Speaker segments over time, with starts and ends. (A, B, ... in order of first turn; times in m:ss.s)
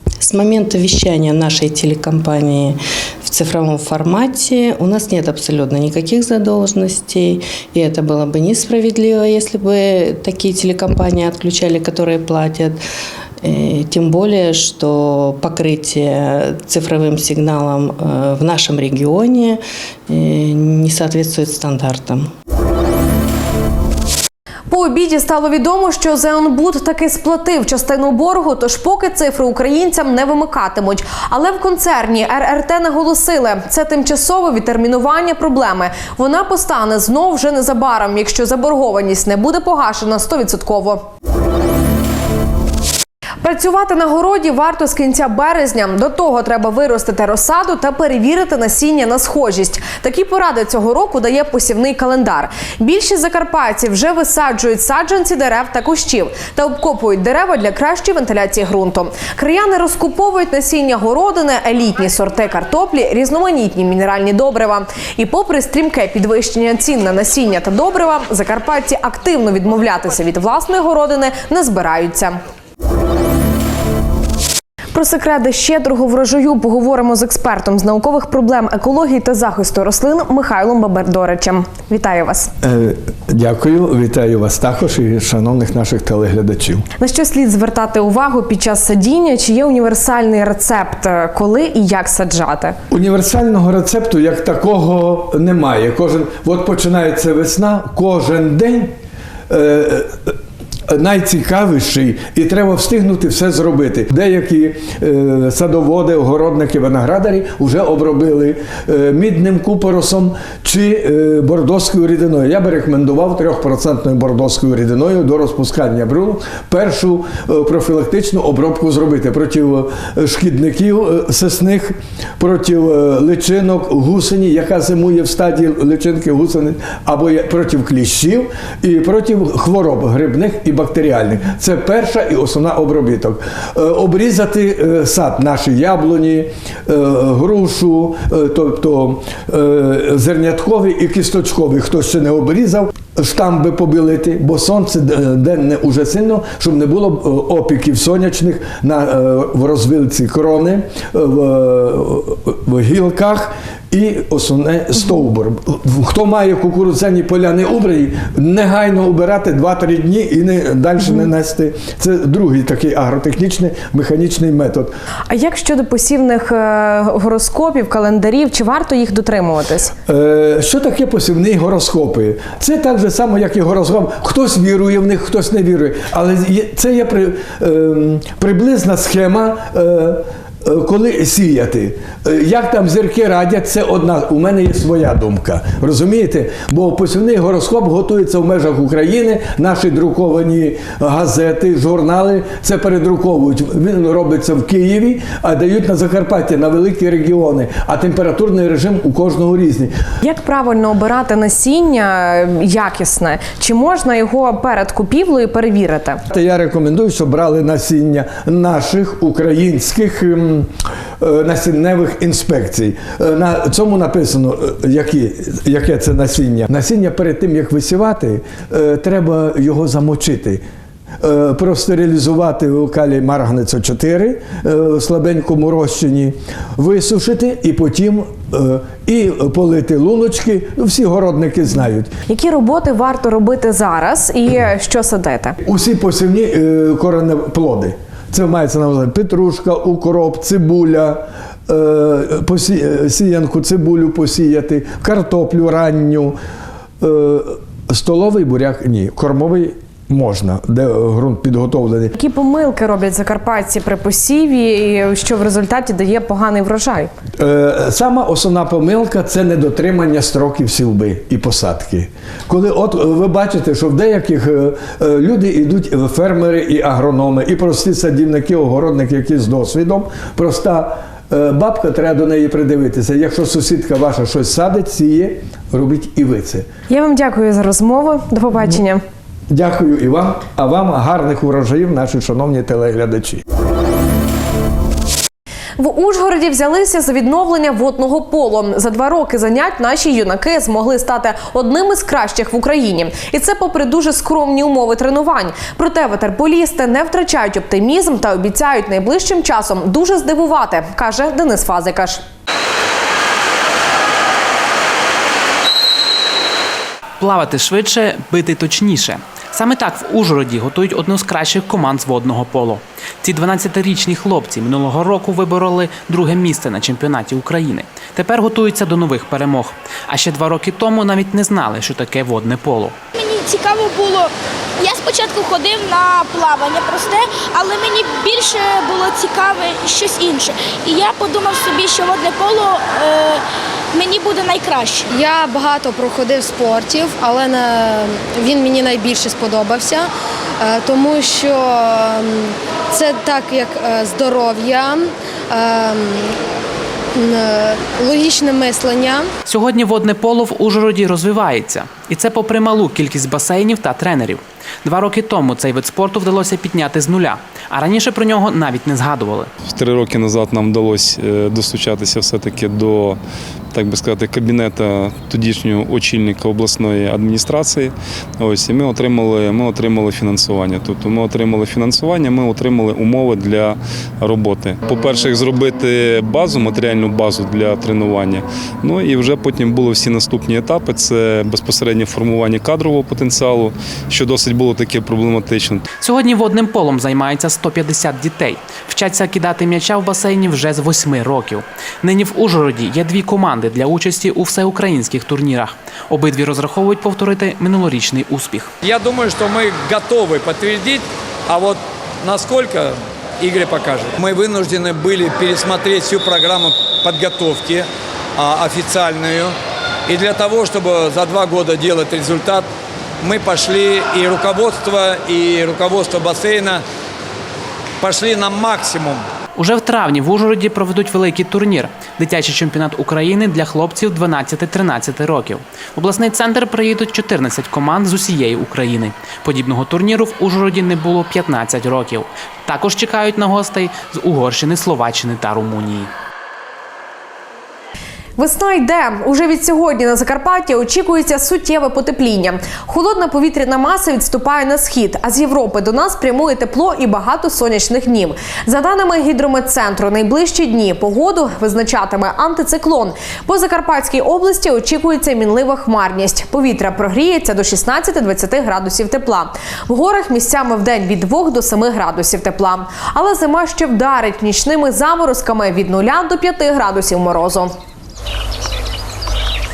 0:00.2-0:12.8 A
0:13.4-0:22.3 A
0:24.7-0:41.1 B
0:43.4-1:12.4 B
1:14.9-1:22.5 B
1:22.6-1:26.8 C
1:27.0-1:32.8 B
1:32.9-1:38.9 C
1:39.5-1:40.3 C
1:40.9-2:44.9 C
2:45.3-2:49.9 B
2:50.1-3:19.9 C
3:20.2-3:26.2 B
3:26.3-3:40.6 C
3:41.2-3:52.1 C
3:52.3-3:55.6 B
3:55.6-4:06.4 C
4:07.0-4:12.1 C
4:12.1-4:17.1 B
4:17.4-4:36.7 C
4:36.9-4:39.0 B
4:39.5-4:43.4 C
4:45.8-5:02.2 B
5:07.2-5:22.9 D
5:23.1-5:35.1 E
5:35.1-5:46.3 F
5:47.1-5:49.3 F
5:49.4-5:59.5 D
5:59.6-6:03.2 G
6:03.7-6:25.8 G
6:26.0-6:38.7 D
6:38.8-6:49.5 H
6:50.1-6:52.7 H
6:53.2-6:56.8 H
6:58.0-6:59.2 H
6:59.6-7:16.1 D
7:18.4-7:47.7 B